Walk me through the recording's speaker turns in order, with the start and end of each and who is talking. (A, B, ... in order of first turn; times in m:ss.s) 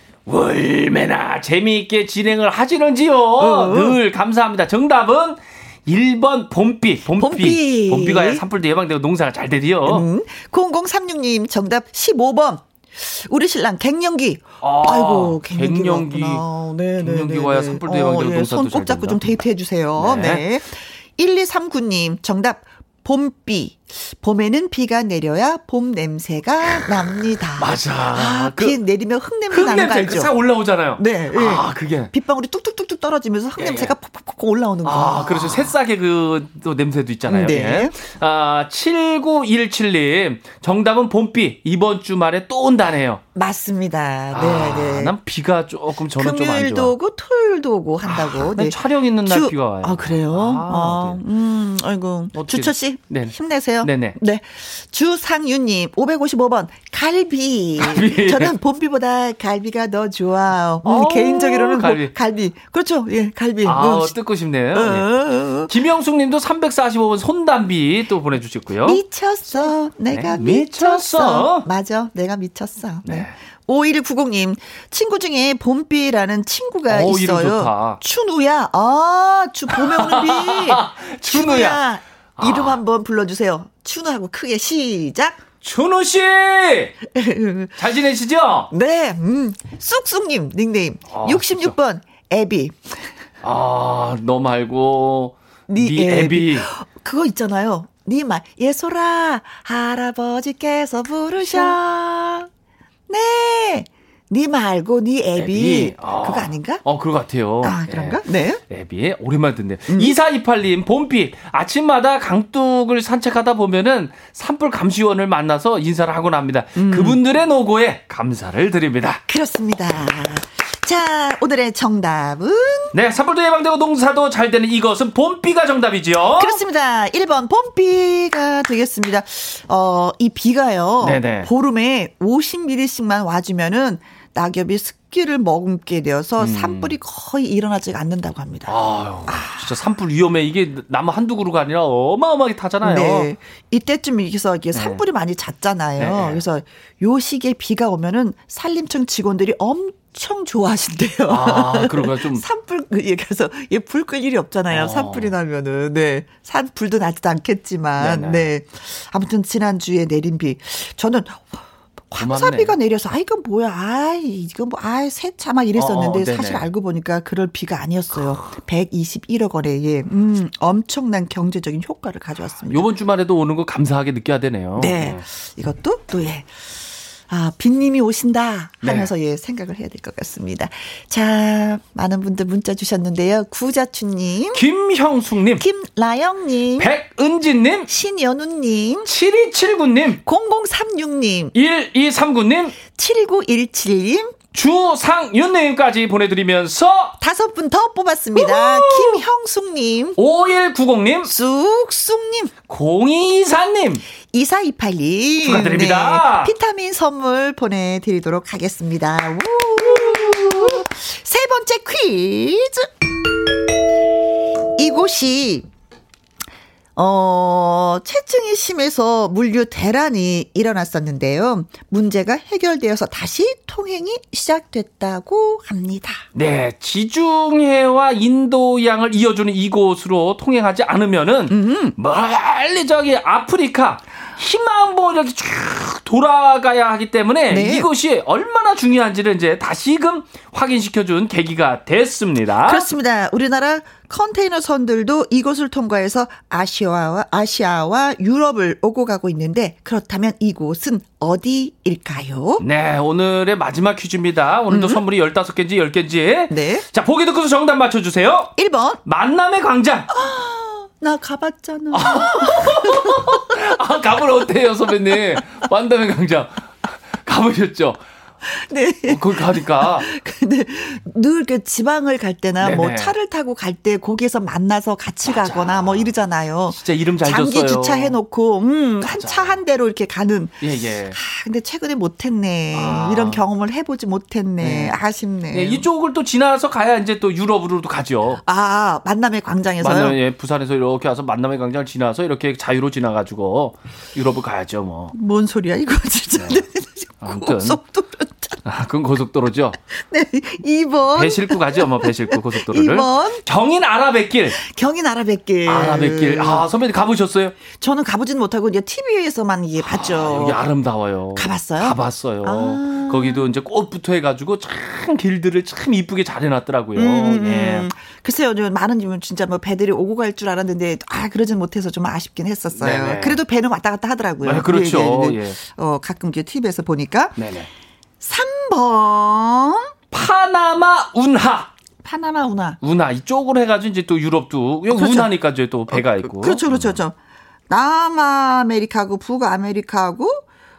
0:00.2-0:10.0 A
0:03.4-0:04.0 B
0:07.2-0:08.4 B
0:09.8-0:30.3 B
0:14.6-0:16.4 A
0:17.0-0:19.4 A
0:20.0-0:20.4 A
0:27.6-0:28.8 A
0:29.5-0:32.1 A
0:31.0-0:35.7 B
0:33.6-0:33.9 A
0:34.8-0:43.2 A
0:37.3-0:37.9 B
0:43.3-0:45.1 B
0:44.3-0:46.9 A
0:46.2-1:04.1 B
0:48.0-0:51.2 A
0:52.3-0:54.2 A
0:57.8-0:58.5 A
1:00.8-1:02.1 A
1:03.6-1:05.1 A
1:04.7-1:05.7 B
1:05.7-1:09.0 A
1:08.8-1:25.4 B
1:09.6-1:11.7 A
1:13.0-1:13.3 A
1:16.9-1:18.0 A
1:19.7-1:21.8 A
1:22.4-1:22.8 A
1:25.6-1:26.9 A
1:27.1-1:27.8 B
1:27.8-1:28.7 A
1:28.7-1:33.0 B
1:31.1-1:31.7 A
1:33.4-1:36.7 A
1:35.7-1:42.5 B
1:41.4-1:41.8 A
1:43.1-1:46.8 B
1:45.4-1:59.2 A
1:47.6-1:48.6 B
1:49.9-1:50.1 B
1:56.8-1:57.2 B
1:59.3-2:02.9 B
2:02.9-2:06.6 A
2:06.4-2:18.7 B
2:11.0-2:11.5 A
2:16.4-2:16.9 A
2:18.7-2:23.3 A
2:19.3-2:19.7 B
2:22.8-2:52.8 B
2:24.7-2:25.0 A
2:26.0-2:26.4 A
2:31.3-2:32.4 A
2:34.7-2:35.3 A
2:38.0-2:38.5 A
2:42.2-2:42.7 A
2:45.7-2:46.7 A
2:52.6-2:55.2 A
2:54.8-2:56.5 B
2:57.3-3:04.6 B
2:58.8-2:59.1 A
3:04.5-3:05.6 A
3:05.6-3:06.9 B
3:06.8-3:07.9 A
3:07.9-3:09.1 B
3:09.0-3:10.2 A
3:10.2-3:11.5 B
3:11.5-3:12.8 A
3:12.9-3:14.4 B
3:14.5-3:17.2 A
3:17.2-3:20.2 B
3:18.3-3:19.2 A
3:20.2-3:21.3 A
3:21.2-3:22.5 B
3:22.7-3:24.0 A
3:24.3-3:32.9 B
3:25.4-3:26.5 A
3:30.0-3:30.7 A
3:34.8-3:35.6 B
3:37.0-3:46.2 B
3:46.3-4:02.8 A
3:51.5-3:52.0 B
3:57.5-3:57.9 B
4:02.6-4:12.6 B
4:12.6-4:18.5 A
4:14.7-4:15.0 B
4:16.5-4:16.8 B
4:18.6-4:19.0 B
4:19.0-4:20.1 A
4:20.1-4:23.6 B
4:21.9-4:28.0 A
4:28.4-4:45.9 B
4:29.1-4:30.1 A
4:32.6-4:33.1 A
4:35.2-4:36.1 A
4:36.7-4:38.2 A
4:39.0-4:39.6 A
4:40.6-4:41.2 A
4:42.7-4:43.4 A
4:44.6-4:45.0 A
4:45.5-4:48.4 A
4:48.4-4:50.2 B
4:49.8-4:55.1 A
4:55.1-4:58.6 B
4:57.2-4:57.8 A
4:58.6-4:59.8 A
4:59.9-5:03.4 B
5:01.1-5:04.6 A
5:04.6-5:06.6 B
5:05.6-5:07.6 A
5:07.7-5:10.6 B
5:09.8-5:17.9 A
5:11.4-5:13.4 B
5:17.0-5:27.4 B
5:22.7-5:23.4 A
5:24.4-5:25.6 A
5:27.4-5:27.7 A
5:28.2-5:29.9 B
5:30.1-5:31.7 A
5:32.0-5:32.8 B
5:32.8-5:37.0 A
5:34.9-5:35.3 B
5:35.9-5:37.1 B
5:37.7-5:40.4 B